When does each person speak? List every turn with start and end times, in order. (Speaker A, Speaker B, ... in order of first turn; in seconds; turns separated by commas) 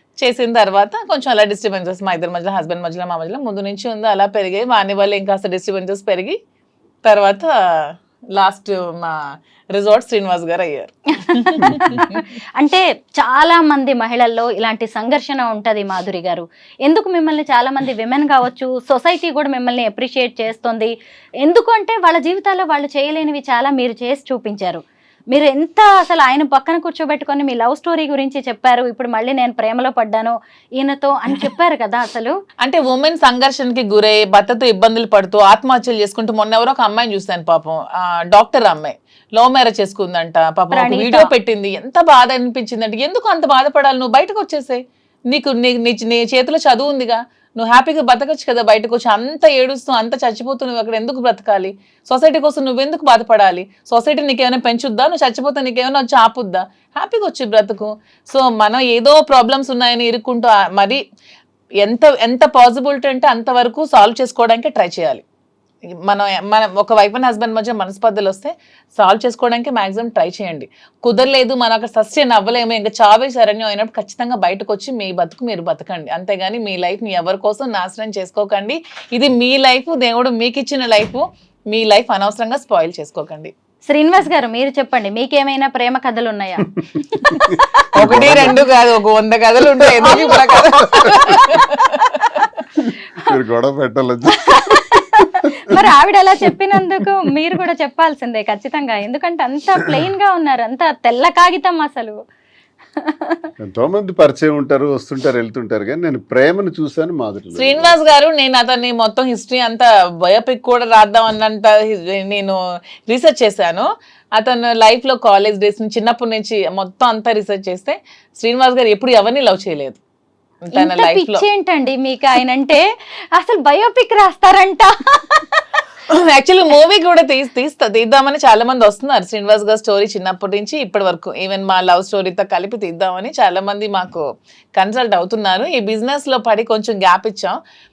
Speaker A: 0.2-6.4, Speaker A: 7.0-9.2, Speaker A: 9.7-12.2, Speaker B: 11.2-32.4, Speaker A: 32.6-61.0, Speaker B: 40.7-41.3, Speaker A: 61.8-65.2, Speaker A: 66.0-83.5, Speaker B: 83.9-87.5, Speaker C: 87.4-88.6, Speaker A: 88.0-92.5, Speaker C: 90.0-90.4, Speaker B: 90.0-91.4, Speaker C: 92.8-95.8, Speaker B: 94.5-102.2, Speaker B: 103.0-103.5, Speaker C: 103.6-108.1, Speaker A: 107.5-112.6, Speaker A: 113.1-120.0, Speaker A: 120.6-121.5, Speaker B: 120.7-125.6, Speaker A: 126.1-137.6